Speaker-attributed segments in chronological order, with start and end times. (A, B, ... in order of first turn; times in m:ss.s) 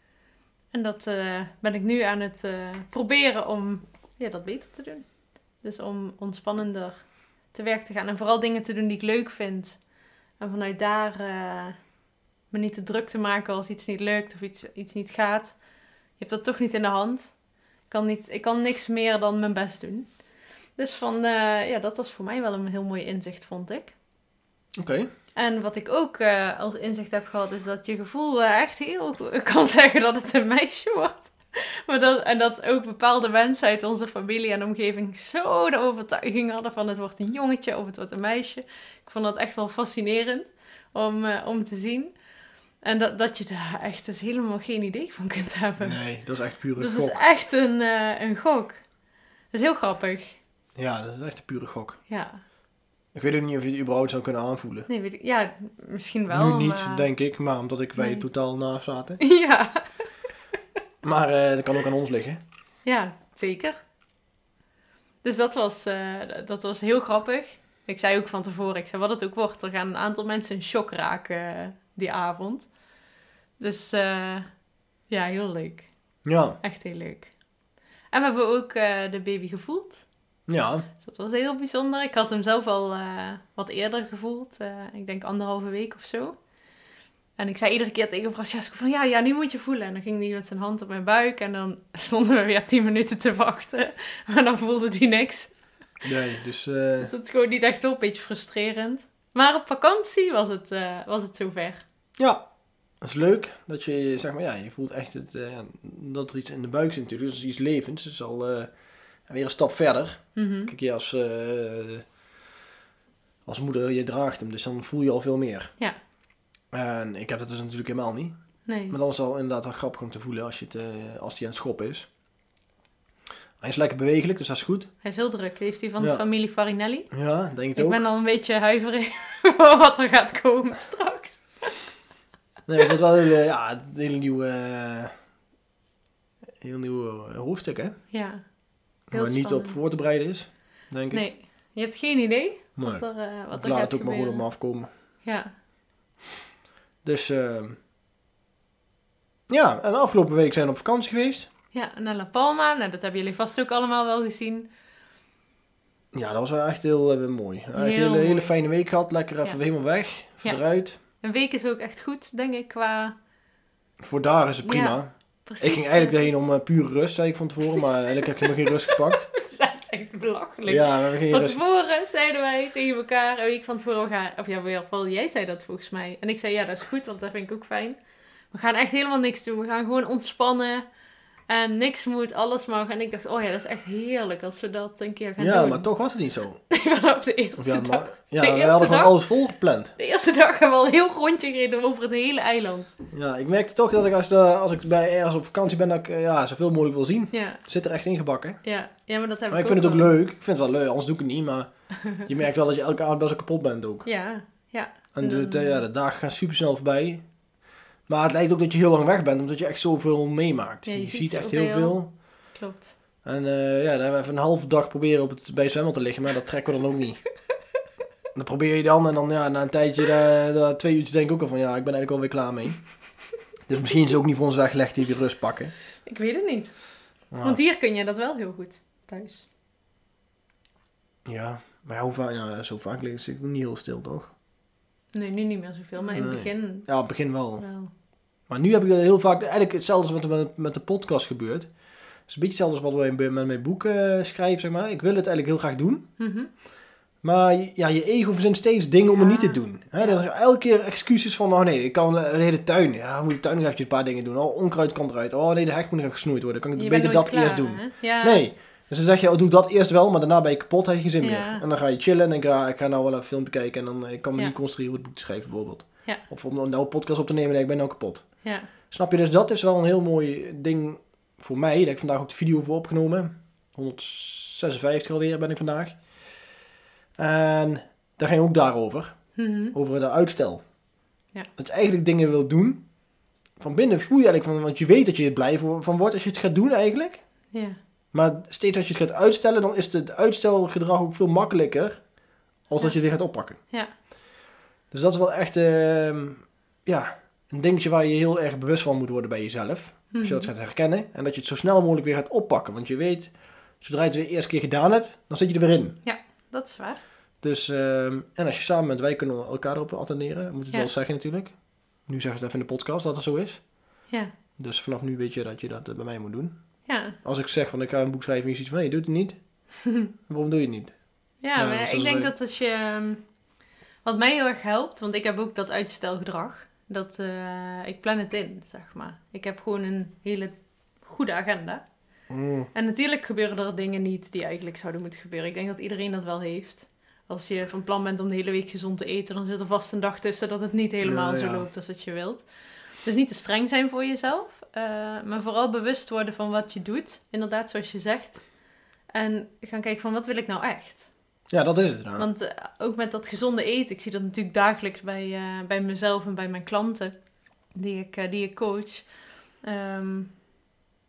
0:00.7-0:05.1 A
0:05.6-0:09.8 A
0:10.4-0:11.8 A
0:12.5-0:15.6 A
0:16.2-0:17.3 A
0:17.9-0:20.1 A
0:20.8-0:23.9 A
0:24.8-0:25.1 B
0:25.4-0:42.1 A
0:42.8-0:46.0 A
0:45.8-0:47.2 B
0:46.8-0:48.8 A
0:49.5-0:50.4 A
0:50.8-0:52.0 B
0:52.1-0:52.4 A
0:53.1-0:54.9 B
0:54.9-0:57.1 A
0:56.3-0:59.2 B
0:58.0-0:58.2 A
0:59.2-1:00.1 A
1:01.0-1:02.4 B
1:02.8-1:03.8 A
1:05.2-1:12.7 A
1:13.6-1:14.5 A
1:15.1-1:15.9 A
1:16.2-1:16.6 B
1:16.6-1:17.3 A
1:18.1-1:20.0 A
1:20.5-1:20.9 B
1:21.0-1:26.4 A
1:27.4-1:35.5 A
1:36.0-1:37.1 B
1:37.0-1:41.8 A
1:42.2-1:42.4 B
1:43.0-1:48.7 B
1:49.2-1:52.0 B
1:50.3-1:50.7 A
1:53.4-1:55.7 B
1:56.7-1:58.3 B
1:58.6-1:59.0 A
1:58.9-2:02.1 B
2:03.6-2:04.9 B
2:05.0-2:07.1 A
2:07.1-2:08.0 B
2:07.7-2:11.8 A
2:12.7-2:15.1 B
2:16.6-2:17.9 B
2:18.1-2:18.4 A
2:19.1-2:19.8 A
2:19.1-2:21.2 B
2:21.1-2:24.5 A
2:22.8-2:24.9 B
2:25.2-2:25.5 A
2:27.0-2:27.8 B
2:29.5-2:31.5 B
2:31.7-2:34.7 A
2:36.1-2:41.0 B
2:37.7-2:38.5 A
2:41.2-2:43.1 A
2:44.0-2:49.3 B
2:44.6-2:46.3 A
2:48.4-2:58.0 A
2:50.7-2:51.6 B
2:58.5-3:00.8 A
3:01.5-3:05.8 A
3:05.4-3:06.6 B
3:06.7-3:09.2 A
3:07.6-3:09.9 B
3:10.0-3:12.9 A
3:13.1-3:18.6 B
3:17.3-3:17.6 A
3:18.6-3:20.1 A
3:19.5-3:24.1 B
3:24.0-3:25.8 A
3:25.1-3:27.2 B
3:28.1-3:32.1 B
3:30.8-3:32.9 A
3:33.2-3:37.2 B
3:38.3-3:42.8 B
3:43.6-3:45.7 B
3:46.0-3:46.8 A
3:47.3-3:47.6 B
3:47.4-3:49.4 A
3:51.2-3:54.3 B
3:55.1-3:56.9 A
3:56.1-3:57.6 B
3:57.6-3:57.9 A
3:58.5-4:01.7 B
4:02.3-4:06.1 B
4:06.2-4:06.5 A
4:07.2-4:28.4 B
4:09.1-4:10.2 A
4:16.8-4:18.4 A
4:21.2-4:21.6 A
4:28.9-4:36.0 B
4:37.2-4:40.6 B
4:39.4-4:39.7 A
4:41.6-4:42.8 B
4:43.6-4:47.2 B
4:47.5-4:47.8 A
4:48.1-4:52.1 B
4:52.7-4:53.6 B
4:54.9-5:06.0 B
5:00.1-5:00.5 A
5:06.0-5:07.0 A
5:07.4-5:11.5 B
5:12.0-5:13.6 B
5:14.6-5:16.6 B
5:16.9-5:17.2 A
5:17.2-5:19.4 B
5:20.3-5:21.0 B
5:21.4-5:23.2 A
5:21.5-5:22.3 B
5:24.0-5:31.8 A
5:32.3-5:32.7 B
5:32.7-5:42.5 A
5:41.0-5:41.7 B
5:43.0-5:48.4 A
5:49.1-5:51.1 A
5:51.5-5:52.3 B
5:52.2-5:57.1 A
5:57.7-5:59.0 A
5:59.6-6:00.3 A